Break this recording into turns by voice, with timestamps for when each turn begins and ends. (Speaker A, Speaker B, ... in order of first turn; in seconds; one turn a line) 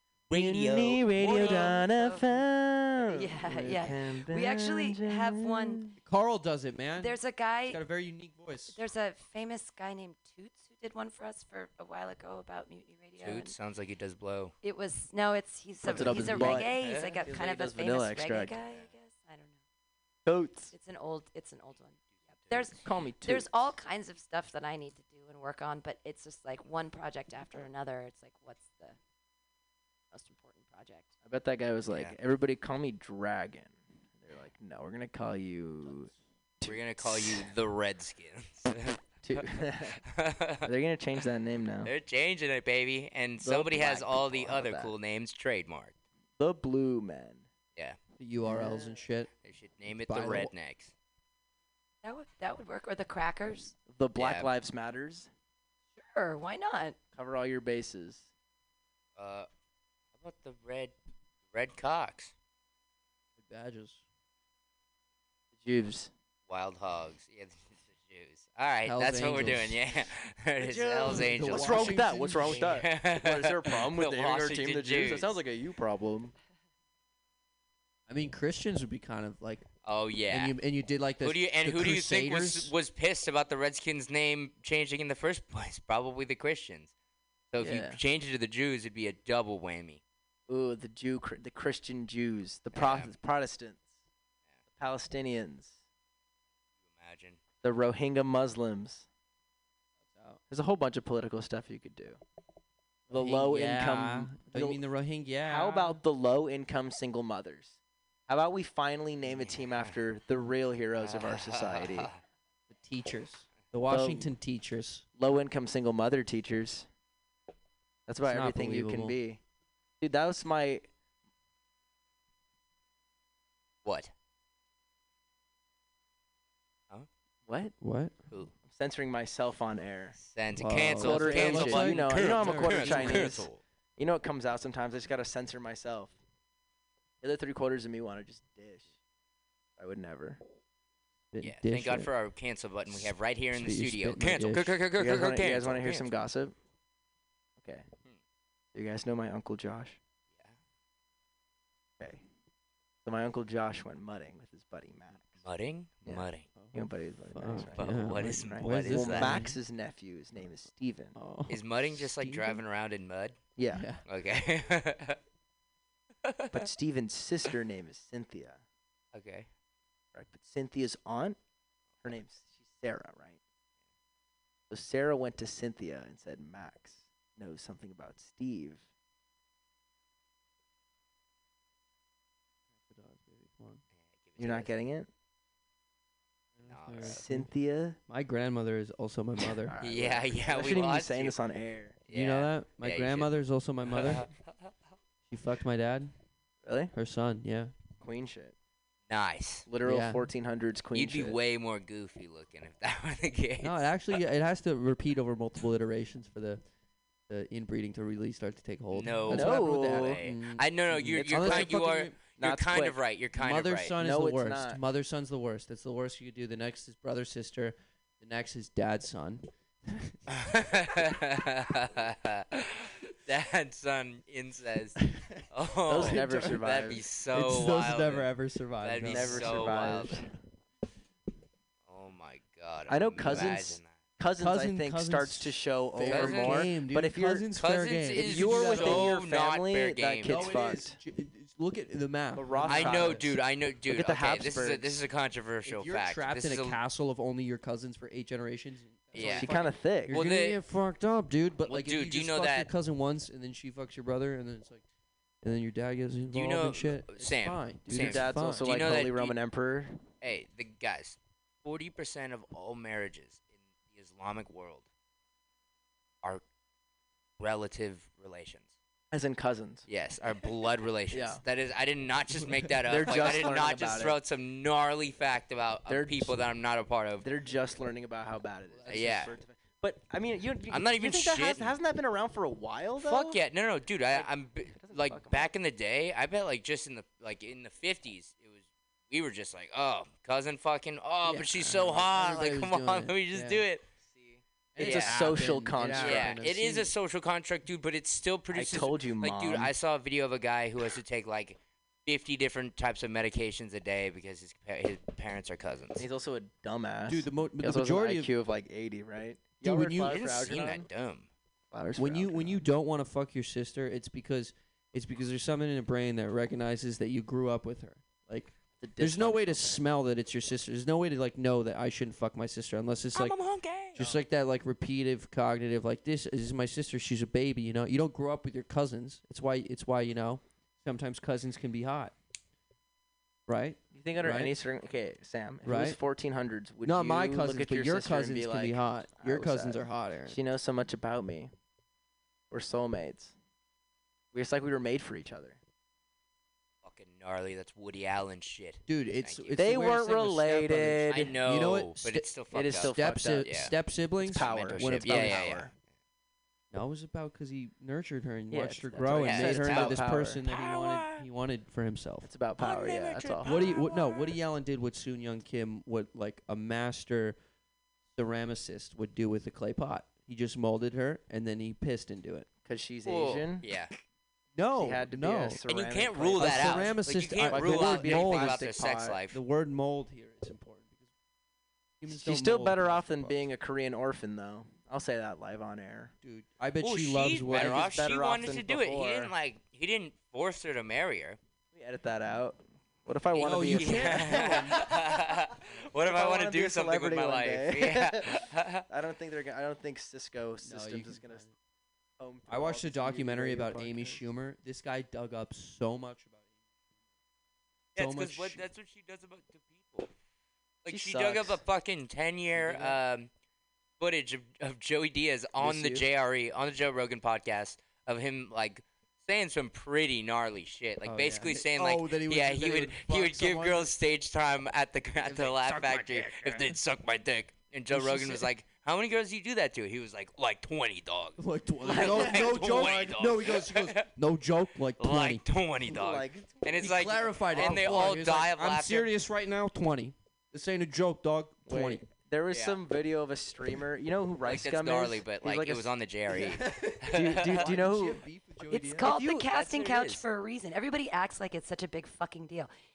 Speaker A: 0.3-1.8
Speaker B: 0.3-6.0
Speaker C: 1.2-2.4
Speaker C: 3.1-5.8
Speaker D: 6.0-8.8
Speaker C: 7.0-7.8
Speaker C: 8.7-13.6
Speaker A: 13.2-14.5
Speaker C: 14.6-19.6
Speaker B: 15.8-18.6
Speaker A: 15.9-17.2
Speaker D: 16.0-16.6
Speaker B: 20.3-20.7
Speaker C: 20.7-29.0
Speaker A: 22.4-22.8
Speaker B: 22.8-23.6
Speaker C: 30.1-31.1
Speaker B: 31.2-37.5
Speaker A: 31.9-32.1
Speaker A: 36.6-40.7
Speaker B: 39.2-40.0
Speaker B: 40.6-41.9
Speaker A: 41.8-46.0
Speaker B: 43.4-44.9
Speaker B: 46.4-47.5
Speaker D: 48.2-49.3
Speaker B: 48.4-49.0
Speaker A: 49.4-50.9
Speaker D: 49.9-50.5
Speaker C: 52.0-53.8
Speaker B: 53.9-55.3
Speaker A: 54.2-54.5
Speaker C: 56.0-57.0
Speaker B: 57.1-58.3
Speaker A: 59.2-59.5
Speaker A: 60.2-61.0
Speaker A: 61.5-62.3
Speaker D: 63.4-64.0
Speaker B: 65.6-66.1
Speaker A: 66.5-75.4
Speaker D: 68.9-69.8
Speaker D: 70.7-72.8
Speaker B: 70.7-76.3
Speaker D: 78.1-79.7
Speaker A: 79.8-80.5
Speaker D: 80.3-82.7
Speaker A: 81.2-86.9
Speaker A: 87.5-90.0
Speaker B: 87.6-88.0
Speaker B: 90.5-93.9
Speaker A: 92.7-93.1
Speaker B: 94.8-95.8
Speaker A: 96.9-97.4
Speaker B: 97.6-99.1
Speaker D: 100.1-100.4
Speaker B: 100.5-102.2
Speaker B: 103.1-104.8
Speaker D: 103.1-106.0
Speaker B: 105.5-107.8
Speaker B: 108.3-112.1
Speaker A: 109.3-109.9
Speaker A: 111.0-112.2
Speaker D: 112.7-115.0
Speaker B: 113.9-114.3
Speaker B: 115.2-116.9
Speaker B: 118.1-119.4
Speaker D: 118.2-119.2
Speaker B: 120.0-120.9
Speaker A: 123.8-124.1
Speaker B: 127.5-127.8
Speaker D: 127.8-128.1
Speaker B: 128.6-130.2
Speaker A: 130.2-133.6
Speaker D: 130.6-133.4
Speaker B: 131.0-136.2
Speaker B: 137.2-138.9
Speaker B: 139.8-140.4
Speaker D: 141.3-142.1
Speaker A: 141.4-146.1
Speaker D: 142.9-144.8
Speaker B: 145.0-146.6
Speaker B: 147.6-147.9
Speaker B: 148.7-150.0
Speaker B: 153.1-155.4
Speaker A: 155.3-156.5
Speaker B: 156.1-161.2
Speaker D: 156.6-159.6
Speaker A: 157.8-159.5
Speaker D: 161.2-162.6
Speaker A: 161.5-163.4
Speaker B: 163.6-163.9
Speaker D: 163.7-164.0
Speaker A: 164.1-165.2
Speaker A: 166.2-166.6
Speaker B: 166.5-168.6
Speaker A: 169.1-169.5
Speaker B: 170.1-171.4
Speaker B: 172.0-173.4
Speaker B: 174.7-178.8
Speaker D: 182.8-183.8
Speaker A: 184.0-184.7
Speaker B: 184.4-185.1
Speaker D: 186.6-187.5
Speaker A: 186.7-187.2
Speaker B: 187.0-188.0
Speaker D: 188.1-189.7
Speaker B: 189.7-192.0
Speaker A: 189.8-191.4
Speaker A: 192.1-193.3
Speaker D: 192.1-194.3
Speaker A: 193.9-194.3
Speaker D: 195.3-196.1
Speaker B: 196.7-196.9
Speaker D: 196.9-197.7
Speaker B: 198.0-198.6
Speaker A: 199.1-199.7
Speaker B: 199.7-201.4
Speaker D: 199.8-200.2
Speaker A: 200.9-203.9
Speaker D: 203.6-206.6
Speaker D: 207.3-212.2
Speaker A: 208.9-214.0
Speaker B: 209.3-210.2
Speaker B: 211.1-211.7
Speaker B: 212.4-213.0
Speaker D: 213.4-220.2
Speaker B: 214.0-214.8
Speaker A: 220.3-228.3
Speaker D: 225.0-226.8
Speaker B: 225.9-227.0
Speaker D: 227.3-230.0
Speaker A: 228.8-230.3
Speaker B: 229.1-230.3
Speaker A: 231.9-233.9
Speaker B: 232.9-237.5
Speaker D: 234.4-239.2
Speaker A: 236.1-236.7
Speaker A: 237.6-240.5
Speaker B: 238.2-241.0
Speaker D: 240.2-243.3
Speaker B: 242.4-243.3
Speaker A: 242.7-246.8
Speaker B: 243.9-245.0
Speaker D: 245.7-254.8
Speaker A: 249.1-250.6
Speaker B: 249.2-250.2
Speaker A: 251.7-252.7
Speaker D: 255.4-258.8
Speaker A: 256.3-259.4
Speaker B: 257.9-260.0
Speaker A: 260.2-264.9
Speaker A: 267.4-268.7
Speaker B: 269.1-269.9
Speaker A: 269.9-277.2
Speaker B: 271.1-271.4
Speaker D: 272.4-273.5
Speaker B: 272.9-274.2
Speaker B: 275.9-276.4
Speaker B: 277.2-283.4
Speaker D: 278.7-279.1
Speaker A: 278.9-279.3
Speaker A: 280.7-281.8
Speaker A: 283.0-293.8
Speaker B: 284.1-285.5
Speaker D: 291.2-293.6
Speaker B: 294.0-296.4
Speaker D: 294.8-296.9
Speaker A: 294.8-295.2
Speaker A: 296.0-306.0
Speaker B: 298.5-299.7
Speaker B: 306.0-310.9
Speaker D: 307.1-308.3
Speaker D: 309.6-310.2
Speaker A: 310.1-311.3
Speaker B: 311.7-312.7
Speaker D: 312.0-323.4
Speaker B: 318.8-319.8
Speaker A: 323.1-324.1
Speaker D: 323.9-332.1
Speaker D: 333.5-334.5
Speaker B: 333.9-341.5
Speaker D: 335.6-336.0
Speaker D: 336.8-340.4
Speaker B: 342.5-343.4
Speaker B: 344.3-345.6
Speaker A: 346.8-349.9
Speaker D: 348.9-355.5
Speaker B: 349.6-351.3
Speaker A: 351.1-353.7
Speaker B: 352.5-353.5
Speaker B: 354.2-355.7
Speaker A: 354.3-355.8
Speaker D: 356.7-362.3
Speaker B: 358.5-360.4
Speaker A: 359.2-361.2
Speaker B: 362.2-363.7
Speaker A: 362.6-364.4
Speaker D: 363.4-367.4
Speaker D: 368.1-372.5
Speaker B: 372.6-373.7
Speaker A: 373.1-373.9
Speaker D: 374.6-375.6
Speaker B: 374.8-379.2
Speaker A: 375.7-379.4
Speaker D: 376.4-378.6
Speaker D: 379.3-381.1
Speaker D: 382.0-383.5
Speaker B: 382.1-386.1
Speaker D: 386.2-388.0
Speaker A: 386.8-391.4
Speaker B: 387.5-389.3
Speaker B: 391.7-394.8
Speaker D: 393.4-394.9
Speaker A: 393.7-398.9
Speaker B: 396.0-401.4
Speaker D: 400.6-401.5
Speaker B: 402.2-404.2
Speaker D: 402.5-406.5
Speaker A: 407.9-410.1
Speaker D: 408.0-408.6
Speaker A: 410.8-413.3
Speaker B: 410.9-411.6
Speaker D: 412.6-412.9
Speaker A: 414.0-434.1
Speaker B: 415.6-416.1
Speaker D: 421.0-423.9
Speaker D: 425.2-426.8
Speaker D: 427.9-428.5
Speaker D: 431.4-435.4
Speaker B: 431.9-433.0
Speaker A: 435.0-439.1
Speaker B: 435.9-438.2
Speaker D: 436.8-442.0
Speaker B: 441.7-446.5
Speaker A: 442.5-442.8
Speaker A: 444.4-447.7
Speaker D: 446.4-449.1
Speaker B: 447.1-448.2
Speaker C: 448.7-452.7
Speaker A: 449.0-450.2